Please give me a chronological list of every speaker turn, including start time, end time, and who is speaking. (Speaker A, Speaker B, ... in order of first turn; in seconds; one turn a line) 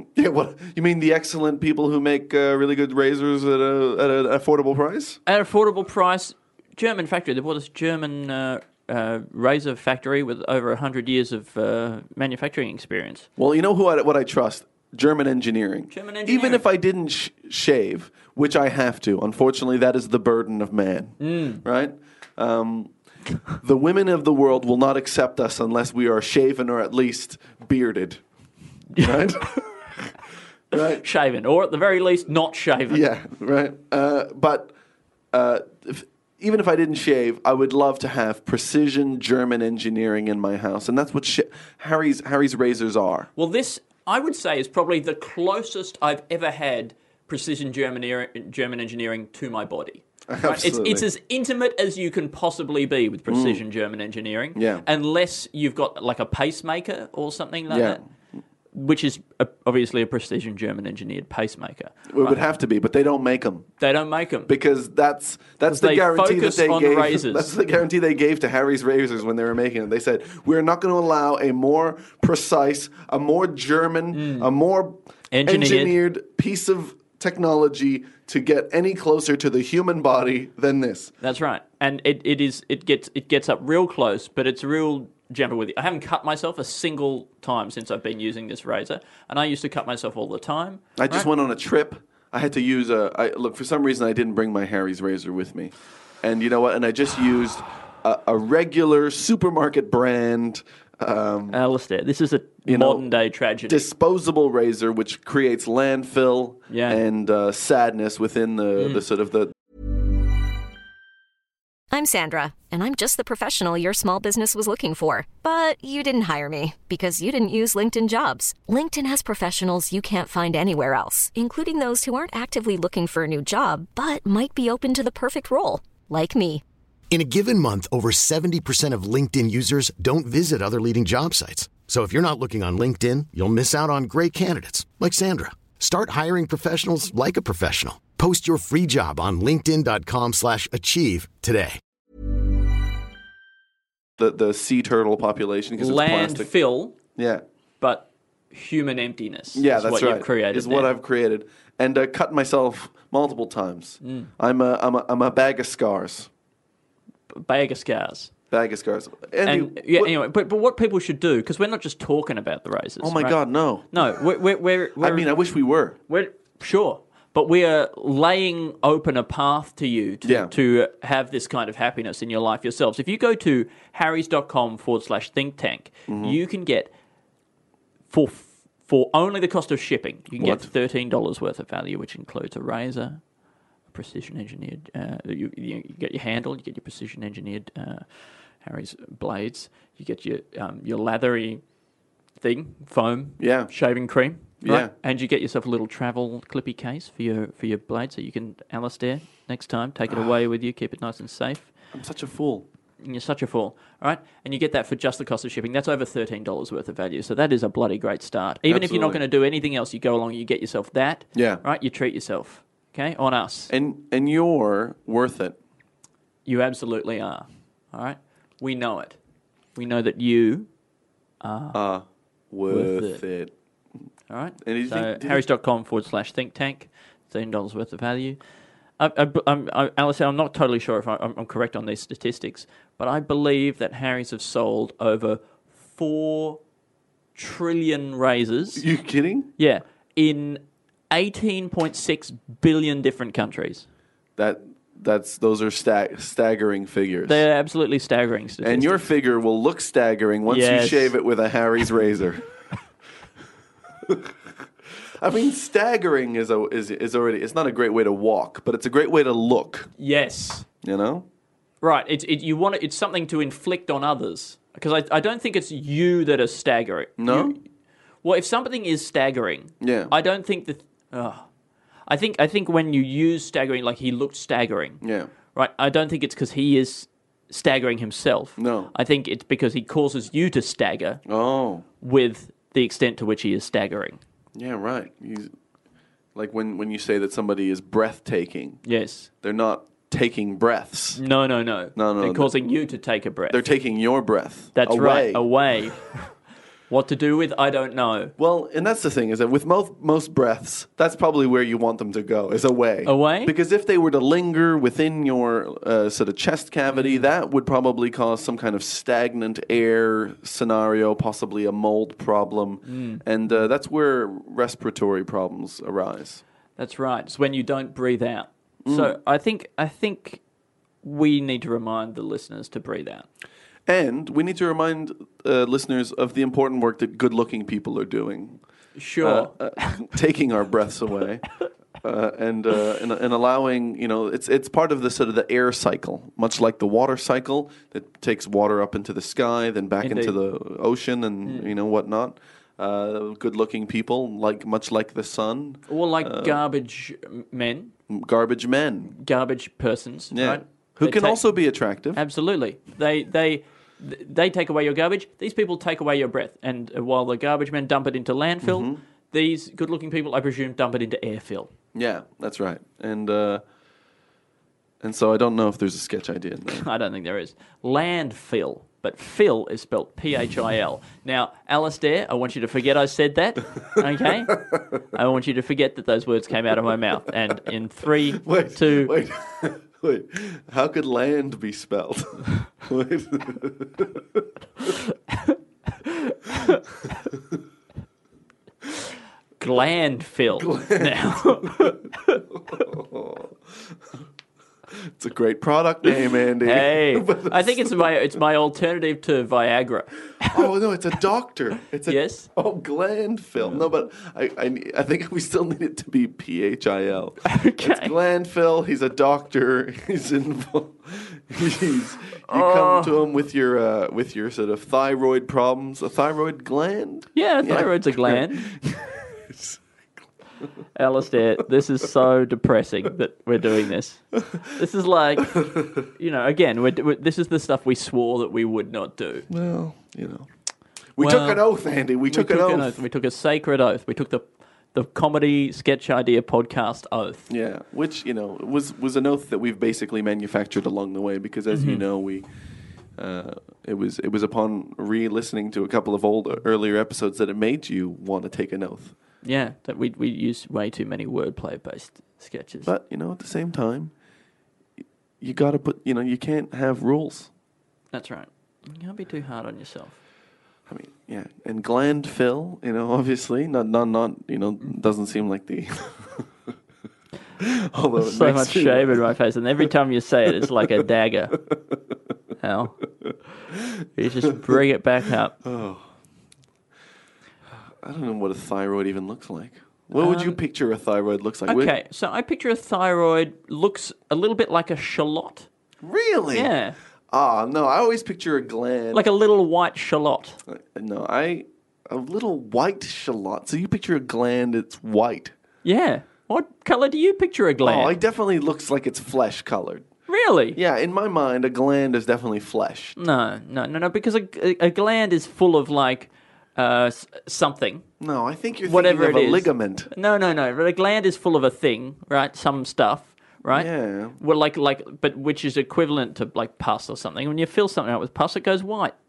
Speaker A: 0.1-5.2
Speaker B: 5.3-13.3
Speaker A: 13.4-22.9
Speaker B: 15.9-16.6
Speaker B: 21.2-21.6
Speaker A: 23.5-28.2
Speaker B: 28.9-29.6
Speaker A: 29.0-29.5
Speaker A: 30.7-31.0
Speaker B: 30.7-33.0
Speaker A: 32.9-34.7
Speaker A: 35.3-43.3
Speaker B: 43.4-58.0
Speaker A: 50.3-51.1
Speaker A: 53.3-53.6
Speaker A: 54.5-54.9
Speaker A: 57.7-58.0
Speaker B: 58.7-62.4
Speaker A: 62.1-63.7
Speaker B: 63.8-64.5
Speaker A: 64.5-81.1
Speaker B: 65.7-67.5
Speaker B: 74.1-74.5
Speaker B: 75.3-76.0
Speaker B: 81.2-91.3
Speaker A: 91.0-101.6
Speaker B: 101.5-103.8
Speaker A: 102.7-103.1
Speaker A: 103.7-109.5
Speaker B: 106.7-107.0
Speaker B: 108.8-109.0
Speaker C: 111.9-126.6
Speaker D: 127.1-141.8
Speaker A: 144.2-146.5
Speaker B: 145.8-146.9
Speaker A: 147.2-147.4
Speaker B: 147.8-150.9
Speaker A: 149.5-156.3
Speaker B: 154.0-154.3
Speaker B: 157.3-158.3
Speaker A: 158.5-160.1
Speaker B: 159.5-163.4
Speaker A: 163.0-164.1
Speaker B: 163.9-165.3
Speaker A: 165.0-166.0
Speaker B: 166.1-176.9
Speaker A: 170.2-170.5
Speaker A: 176.1-176.4
Speaker B: 178.1-183.2
Speaker A: 180.4-180.7
Speaker B: 183.9-188.1
Speaker B: 188.6-191.6
Speaker B: 192.4-201.7
Speaker A: 193.4-193.7
Speaker A: 194.6-194.9
Speaker A: 201.9-202.7
Speaker B: 203.0-213.7
Speaker A: 208.7-209.2
Speaker A: 211.3-211.6
Speaker A: 213.7-215.6
Speaker B: 216.5-219.2
Speaker B: 219.8-220.7
Speaker B: 221.4-221.8
Speaker A: 221.7-223.5
Speaker B: 222.7-223.2
Speaker B: 224.3-228.4
Speaker A: 224.6-225.4
Speaker B: 229.0-236.6
Speaker B: 237.4-238.8
Speaker A: 238.8-239.5
Speaker B: 239.6-243.9
Speaker A: 244.4-247.4
Speaker B: 247.3-249.1
Speaker A: 248.6-252.4
Speaker B: 250.5-251.1
Speaker A: 254.0-254.3
Speaker A: 255.2-259.9
Speaker B: 260.0-260.7
Speaker A: 260.8-261.3
Speaker B: 261.8-267.6
Speaker A: 267.2-267.6
Speaker B: 268.2-271.5
Speaker A: 269.8-270.1
Speaker B: 272.1-275.0
Speaker A: 275.0-275.3
Speaker B: 275.6-281.2
Speaker A: 278.6-278.9
Speaker A: 281.3-281.9
Speaker B: 282.0-284.2
Speaker A: 284.6-285.5
Speaker A: 286.4-288.8
Speaker B: 288.8-289.3
Speaker A: 289.4-291.2
Speaker B: 291.2-293.6
Speaker A: 291.9-292.6
Speaker A: 293.5-295.4
Speaker B: 294.8-296.3
Speaker B: 296.9-298.3
Speaker A: 298.4-316.4
Speaker B: 303.1-303.5
Speaker B: 306.9-307.2
Speaker B: 312.9-313.6
Speaker B: 316.8-320.4
Speaker A: 318.9-319.1
Speaker B: 321.0-323.3
Speaker A: 323.9-328.6
Speaker B: 329.0-330.1
Speaker A: 329.2-331.5
Speaker A: 332.0-346.6
Speaker B: 340.0-340.4
Speaker B: 341.4-341.7
Speaker B: 345.9-347.9
Speaker A: 348.1-349.1
Speaker B: 349.2-351.4
Speaker A: 350.3-352.2
Speaker B: 352.1-361.7
Speaker A: 358.6-359.0
Speaker A: 361.9-363.6
Speaker A: 365.0-366.9
Speaker B: 366.7-379.1
Speaker A: 374.2-374.8
Speaker A: 378.3-384.9
Speaker B: 385.3-386.8
Speaker B: 389.6-392.4
Speaker A: 390.5-392.0
Speaker A: 392.5-393.6
Speaker A: 394.9-398.1
Speaker B: 396.6-400.6
Speaker A: 400.4-419.8
Speaker B: 402.1-402.5
Speaker B: 403.6-403.9
Speaker B: 407.5-408.1
Speaker B: 412.5-413.1
Speaker B: 417.4-418.8
Speaker B: 421.0-429.5
Speaker A: 425.5-426.0
Speaker A: 429.5-430.5
Speaker A: 431.2-433.0
Speaker B: 431.2-431.6
Speaker B: 432.3-437.5
Speaker A: 437.5-442.5
Speaker B: 441.7-442.0
Speaker A: 443.2-449.1
Speaker B: 449.4-452.9
Speaker A: 452.9-454.1
Speaker A: 455.4-457.5
Speaker B: 458.1-460.2
Speaker A: 460.9-466.5
Speaker A: 467.6-469.2
Speaker B: 468.2-471.6
Speaker A: 470.5-470.9
Speaker B: 472.6-473.0
Speaker B: 474.2-475.6
Speaker A: 475.6-476.1
Speaker A: 478.0-481.9
Speaker B: 480.1-480.6
Speaker B: 481.7-485.7
Speaker A: 486.0-486.7
Speaker B: 486.5-487.0
Speaker A: 487.3-489.2
Speaker B: 489.1-490.6
Speaker A: 490.7-495.5
Speaker B: 495.8-498.2
Speaker A: 497.8-500.1
Speaker B: 500.3-500.8
Speaker A: 500.7-503.2
Speaker B: 503.2-508.1
Speaker A: 508.2-510.1
Speaker B: 508.9-519.1
Speaker A: 513.7-514.4